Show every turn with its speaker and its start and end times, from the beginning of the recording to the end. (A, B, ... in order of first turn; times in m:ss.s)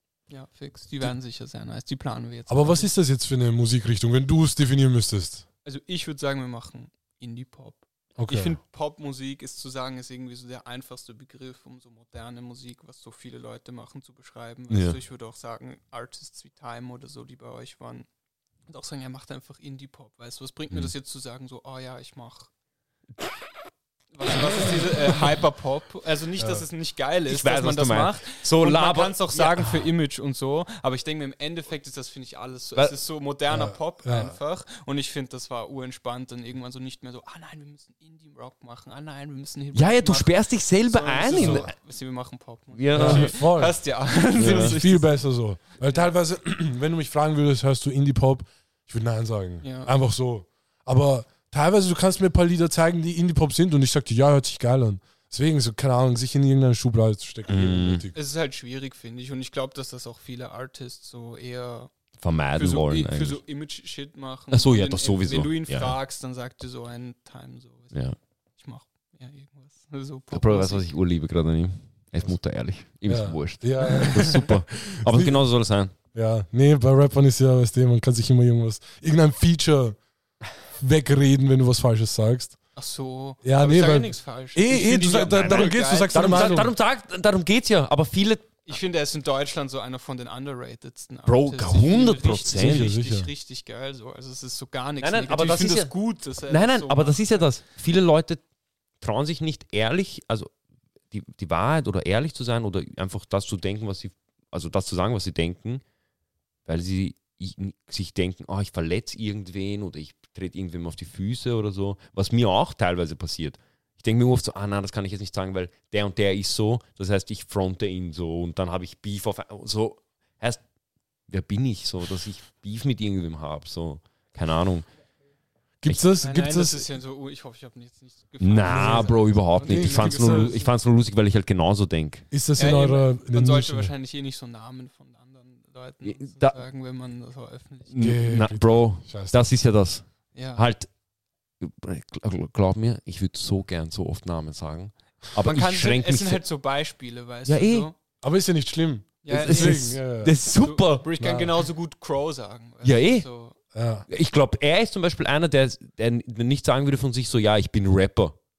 0:00.3-0:02.9 A
0:02.5-0:05.4 B
0:05.6-0:18.1 A
0:08.2-0:08.6 B
0:14.7-0:15.0 C
0:18.7-0:22.5 A
0:24.1-0:45.2 A
0:26.4-0:26.7 B
0:27.3-0:29.9 C
0:33.5-0:34.4 B
0:39.7-0:41.7 C
0:41.3-0:41.7 B
0:42.7-0:43.4 C
0:42.9-0:43.8 B
0:44.4-0:44.8 C
0:44.4-0:58.2 B
0:45.8-0:46.1 A
0:49.6-0:49.9 A
0:57.5-0:58.1 C
0:58.1-1:01.9 A
1:02.2-1:03.4 C
1:02.5-1:08.0 A
1:04.5-1:06.0 C
1:08.6-1:10.8 A
1:10.3-1:15.9 C
1:13.1-1:15.4 B
1:13.8-1:14.4 A
1:16.1-1:20.0 B
1:20.8-1:22.6 B
1:22.8-1:26.6 A
1:23.4-1:26.7 B
1:25.3-1:28.8 C
1:28.7-1:37.5 A
1:31.3-1:32.9 C
1:32.5-1:33.3 B
1:35.0-1:38.4 C
1:39.0-1:40.5 C
1:41.1-1:45.8 C
1:46.7-2:00.6 C
2:01.3-2:04.9 C
2:05.8-2:06.9 B
2:06.2-2:10.7 A
2:08.4-2:12.3 C
2:08.7-2:10.5 B
2:12.3-2:13.9 B
2:12.6-2:18.1 A
2:16.0-2:16.6 C
2:17.9-2:20.9 C
2:18.0-2:19.4 B
2:20.3-2:20.6 A
2:21.6-2:26.4 C
2:25.4-2:28.0 A
2:27.5-2:27.9 C
2:28.2-2:30.3 B
2:29.2-2:30.0 A
2:29.3-2:31.1 C
2:30.5-2:33.6 A
2:31.2-2:31.5 B
2:32.8-2:33.3 C
2:33.7-2:34.1 B
2:34.1-2:38.4 C